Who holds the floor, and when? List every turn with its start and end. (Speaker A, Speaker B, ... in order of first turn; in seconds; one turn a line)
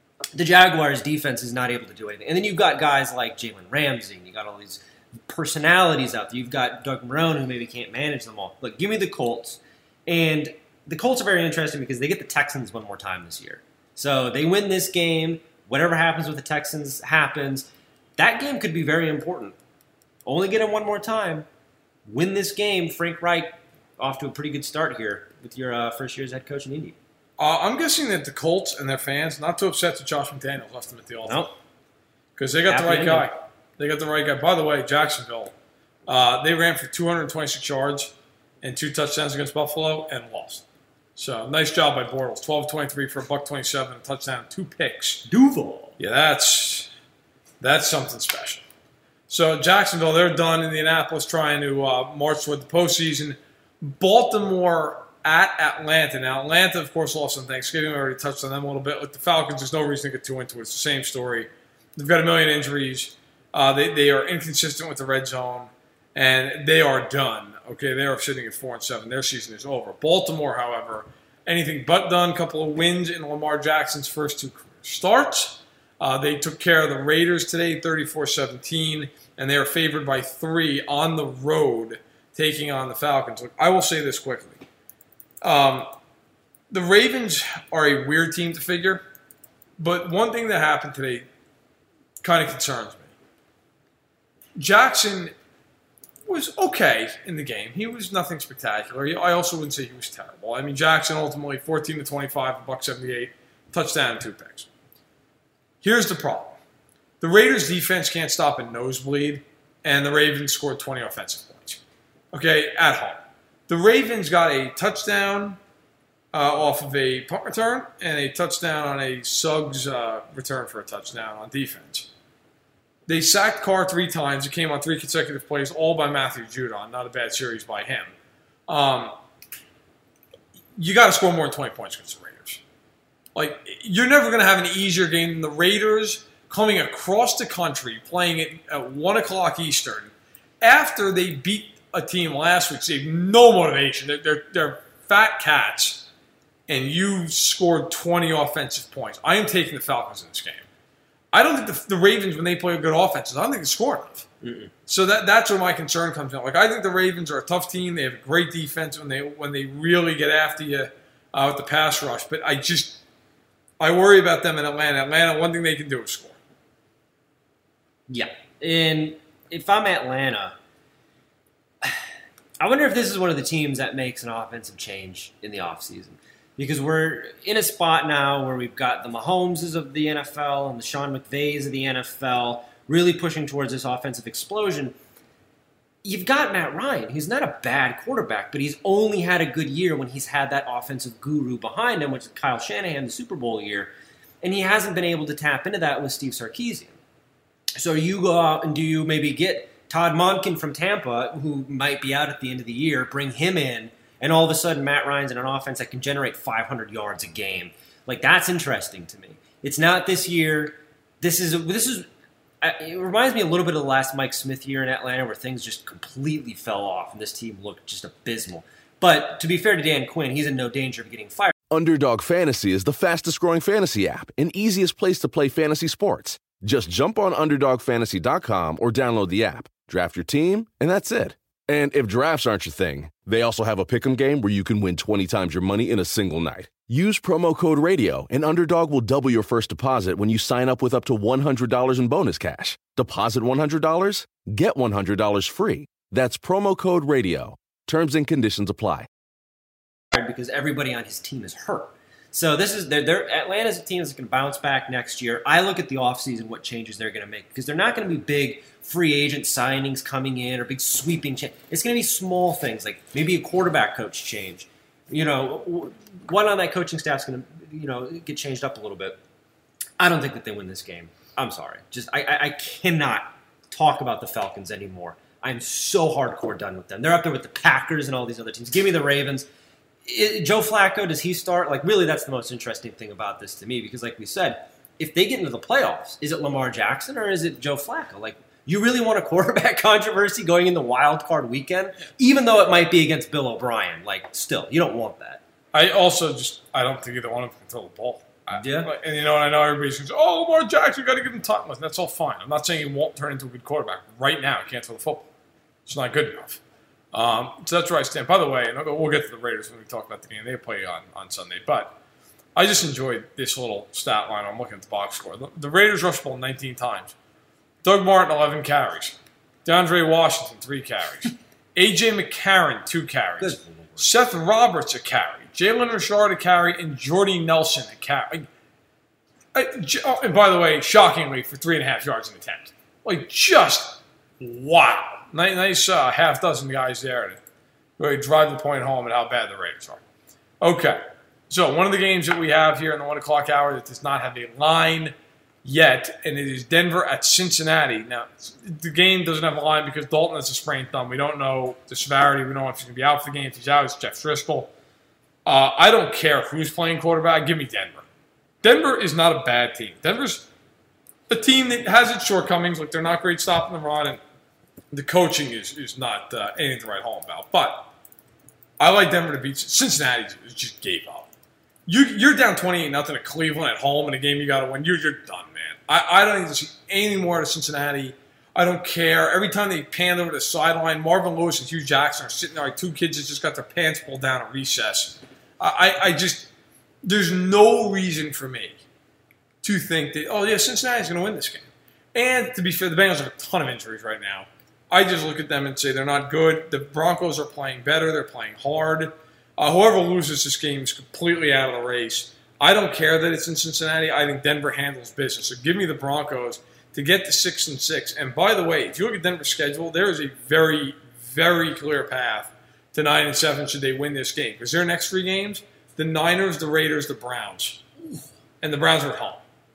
Speaker A: 0.3-19.6
Speaker A: 20.2-21.5
Speaker A: 22.1-27.0
Speaker B: 27.4-31.4
Speaker A: 31.2-31.5
Speaker B: 32.4-35.5
Speaker A: 32.7-33.3
Speaker B: 36.1-40.6
Speaker B: 41.1-45.3
Speaker A: 45.3-46.0
Speaker B: 46.0-46.9
Speaker B: 47.6-48.6
Speaker B: 49.3-84.6
Speaker B: 85.4-85.9
Speaker B: 86.7-89.0
Speaker B: 89.8-91.2
Speaker B: 92.2-93.1
Speaker B: 94.5-95.3
Speaker B: 96.2-104.7
Speaker B: 105.8-106.6
Speaker B: 107.2-111.8
Speaker B: 112.3-115.6
Speaker B: 116.3-122.1
Speaker B: 123.1-128.1
Speaker B: 128.7-129.1
Speaker B: 130.8-132.6
Speaker B: 133.3-146.1
Speaker B: 146.7-150.7
Speaker B: 151.3-154.3
Speaker A: 154.4-154.7
Speaker B: 154.9-163.0
Speaker B: 163.8-166.4
Speaker A: 168.1-170.6
Speaker A: 172.6-184.9
Speaker A: 186.0-193.9
Speaker A: 194.4-197.0
Speaker A: 197.8-212.1
Speaker A: 212.6-221.5
Speaker C: 221.7-249.1
Speaker A: 250.1-269.2
Speaker A: 270.0-279.5
Speaker A: 280.1-295.4
Speaker B: 295.7-305.3
Speaker A: 298.5-298.9
Speaker B: 305.9-306.6
Speaker B: 307.1-311.9
Speaker B: 312.6-317.1
Speaker B: 317.8-328.5
Speaker A: 323.4-324.0
Speaker B: 329.5-337.4
Speaker B: 338.0-340.0
Speaker B: 340.6-354.7
Speaker B: 355.4-358.0
Speaker B: 358.6-360.5
Speaker B: 361.3-364.2
Speaker B: 364.9-367.9
Speaker B: 368.8-371.3
Speaker B: 371.9-386.5
Speaker B: 387.0-388.8
Speaker B: 389.6-417.8
Speaker B: 418.6-419.4